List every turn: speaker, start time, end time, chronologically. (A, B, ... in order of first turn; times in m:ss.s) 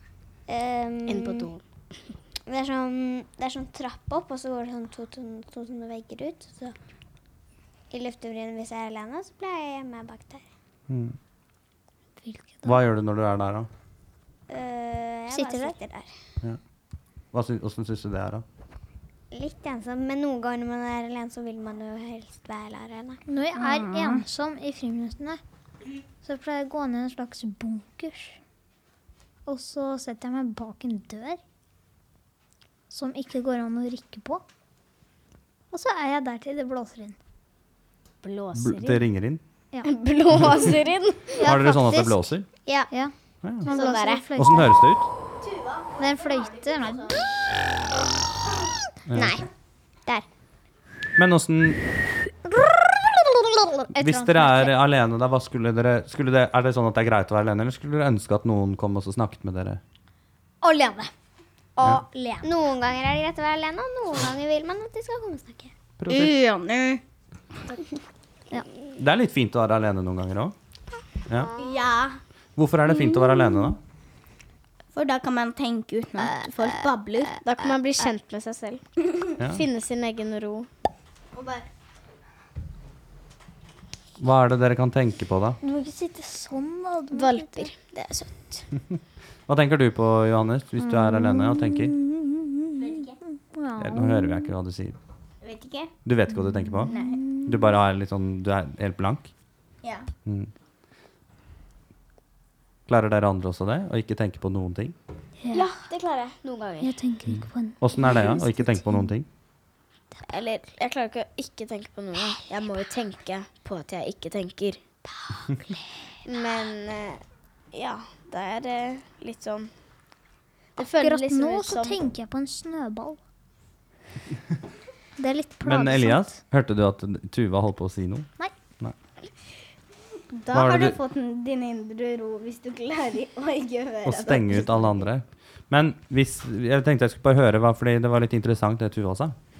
0:00.5-0:01.5 A
0:01.1-0:01.6 B
0:02.5-0:06.8 A
0:07.9-0:10.5 A
0:10.9-0:11.2 C
0:12.2-0:12.8 D
0:12.6-0:13.7 C
0:14.5-0:16.1 A
0:15.3-0:15.8 D
0:17.3-0:18.4 C
0:19.3-0:23.2 A
0:23.3-0:25.4 D
0:23.6-0:24.2 E
0:26.2-0:28.4 D
0:29.5-0:31.4 D
0:32.9-0:34.4 D
0:35.7-0:37.2 D
0:38.2-0:39.0 B
0:38.5-0:39.4 C
0:39.8-0:41.4 B
0:41.4-0:42.3 D
0:41.4-0:42.5 C
0:42.9-0:44.8 D
0:43.7-0:44.2 B
0:44.4-0:45.1 C
0:45.4-0:47.3 E
0:46.0-0:47.3 D
0:49.1-0:49.4 C
0:49.1-0:49.5 A
0:51.2-0:51.8 C
0:52.8-0:53.2 A
0:53.8-0:54.7 D
0:54.0-0:59.8 C
1:00.6-1:01.1 D
1:01.8-1:02.5 D
1:02.4-1:05.7 A
1:06.0-1:06.4 C
1:06.1-1:07.0 E
1:09.0-1:10.6 C
1:11.4-1:11.7 B
1:11.6-1:12.2 E
1:12.6-1:13.8 C
1:14.9-1:17.4 E
1:17.4-1:20.7 B
1:21.3-1:21.7 E
1:24.2-1:25.6 C
1:25.6-1:27.7 D
1:27.1-1:28.7 B
1:29.5-1:31.9 C
1:30.8-1:34.5 D
1:32.8-1:33.2 E
1:33.8-1:35.0 C
1:35.4-1:36.0 E
1:36.0-1:39.3 C
1:36.6-1:37.6 D
1:36.8-1:37.3 E
1:39.8-1:40.1 E
1:40.3-1:40.5 C
1:42.9-1:45.0 C
1:45.4-1:45.7 D
1:45.5-1:46.0 E
1:45.9-1:47.0 B
1:46.8-1:48.9 D
1:47.3-1:49.3 C
1:50.2-1:54.8 B
1:56.2-1:59.7 B
2:00.8-2:02.0 B
2:00.8-2:03.2 D
2:05.2-2:06.4 D
2:05.6-2:08.3 C
2:10.3-2:15.0 E
2:10.5-2:11.0 C
2:14.0-2:19.4 C